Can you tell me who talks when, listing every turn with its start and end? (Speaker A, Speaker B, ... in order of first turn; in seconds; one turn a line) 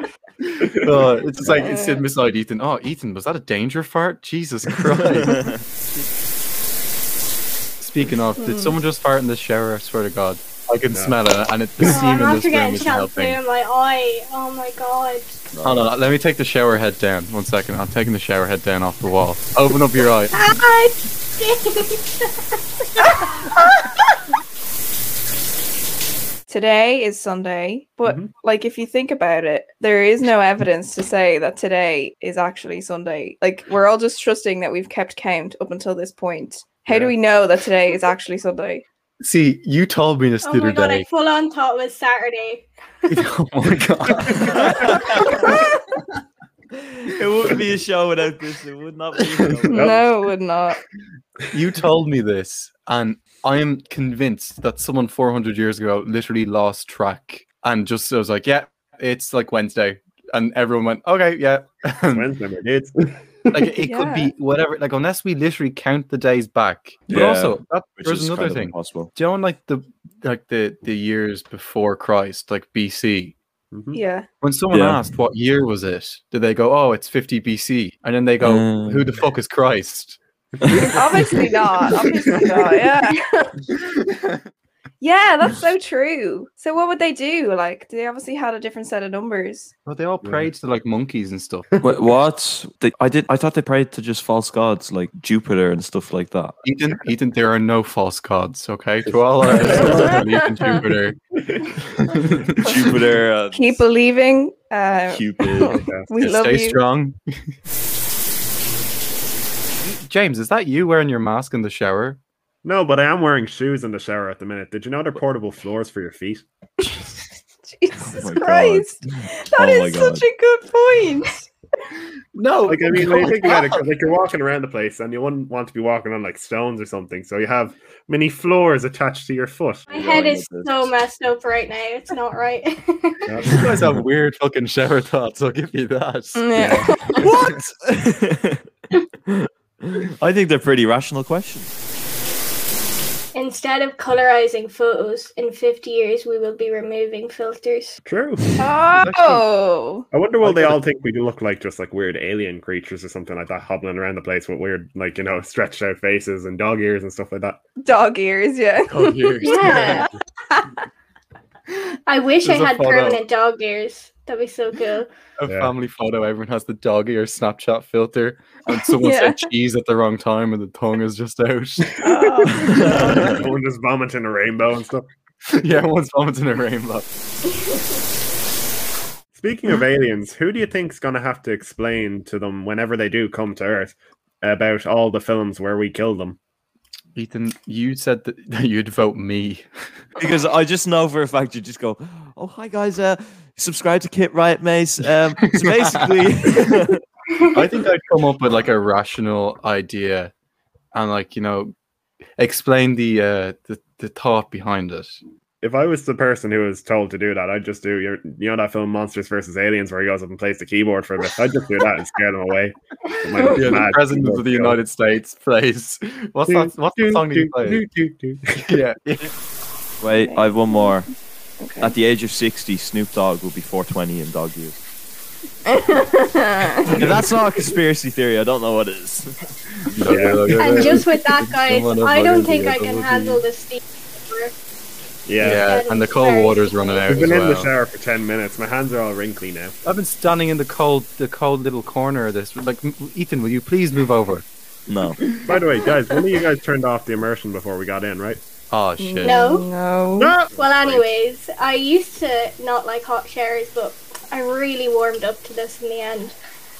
Speaker A: 0.6-1.7
Speaker B: 0.8-5.5
Speaker C: 1.6-2.0
Speaker B: 7.8-13.4
Speaker C: 8.4-8.8
Speaker A: 10.9-11.2
Speaker D: 11.8-15.5
Speaker B: 15.5-20.5
Speaker D: 20.3-22.3
Speaker D: 23.0-23.5
Speaker C: 26.5-38.8
Speaker A: 28.1-28.3
Speaker B: 36.9-37.1
Speaker B: 39.2-41.1
Speaker D: 40.4-43.1
Speaker B: 43.1-45.5
Speaker E: 44.6-45.5
Speaker E: 46.8-50.1
Speaker C: 49.7-50.8
Speaker A: 49.8-50.0
Speaker B: 51.5-62.3
Speaker A: 62.1-63.7
Speaker B: 63.5-73.4
Speaker C: 63.8-64.3
Speaker E: 67.1-69.1
Speaker A: 73.7-74.0
Speaker C: 73.9-74.3
Speaker B: 74.4-80.2
Speaker E: 74.7-75.0
Speaker E: 78.4-79.1
Speaker A: 80.5-81.4
Speaker C: 80.7-83.2
Speaker B: 82.3-82.7
Speaker B: 84.0-84.4
Speaker C: 85.0-89.7
Speaker B: 89.9-91.7
Speaker A: 90.2-90.5
Speaker E: 91.8-96.5
Speaker B: 96.6-101.2
Speaker A: 99.5-100.2
Speaker E: 99.8-100.0
Speaker A: 101.4-101.9
Speaker B: 102.0-102.8
Speaker E: 102.6-103.8
Speaker C: 103.5-106.8
Speaker E: 105.1-105.8
Speaker A: 105.8-106.1
Speaker B: 106.1-107.2
Speaker B: 109.8-112.2
Speaker A: 112.6-116.4
Speaker C: 117.7-121.5
Speaker E: 118.0-120.2
Speaker B: 122.4-123.8
Speaker A: 122.7-129.9
Speaker D: 129.9-133.2
Speaker E: 129.9-130.9
Speaker A: 133.3-133.7
Speaker B: 133.4-136.5
Speaker C: 136.3-137.2
Speaker A: 136.6-136.9
Speaker E: 137.2-138.6
Speaker E: 139.3-141.7
Speaker D: 143.3-148.0
Speaker A: 148.0-148.7
Speaker C: 148.6-150.1
Speaker B: 149.0-149.5
Speaker A: 150.1-157.6
Speaker B: 150.4-150.8
Speaker C: 157.8-160.1
Speaker B: 158.9-160.1
Speaker D: 159.5-160.1
Speaker D: 162.1-165.1
Speaker B: 162.4-163.2
Speaker B: 165.4-172.0
Speaker A: 165.5-165.7
Speaker C: 168.7-169.4
Speaker C: 172.0-173.4
Speaker A: 172.8-175.1
Speaker B: 175.5-177.1
Speaker A: 179.3-186.4
Speaker B: 187.2-189.7
Speaker E: 190.2-197.0
Speaker B: 195.4-195.7
Speaker B: 197.5-200.3
Speaker B: 200.9-201.7
Speaker B: 202.4-205.2
Speaker A: 205.6-214.8
Speaker B: 213.3-217.9
Speaker A: 216.5-218.8
Speaker B: 218.6-219.3
Speaker E: 220.0-221.1
Speaker C: 220.2-220.9
Speaker C: 221.6-222.0
Speaker E: 221.8-224.8
Speaker C: 225.7-227.0
Speaker E: 226.9-229.4
Speaker B: 230.0-233.4
Speaker A: 230.1-231.0
Speaker D: 230.6-234.5
Speaker A: 235.3-235.8
Speaker B: 235.4-237.7
Speaker D: 235.6-236.9
Speaker A: 237.0-239.8
Speaker B: 239.8-244.4
Speaker E: 244.9-245.2
Speaker A: 245.4-248.4
Speaker B: 248.7-249.5
Speaker C: 249.0-250.4
Speaker D: 249.2-249.7
Speaker A: 250.2-251.1
Speaker D: 250.6-256.4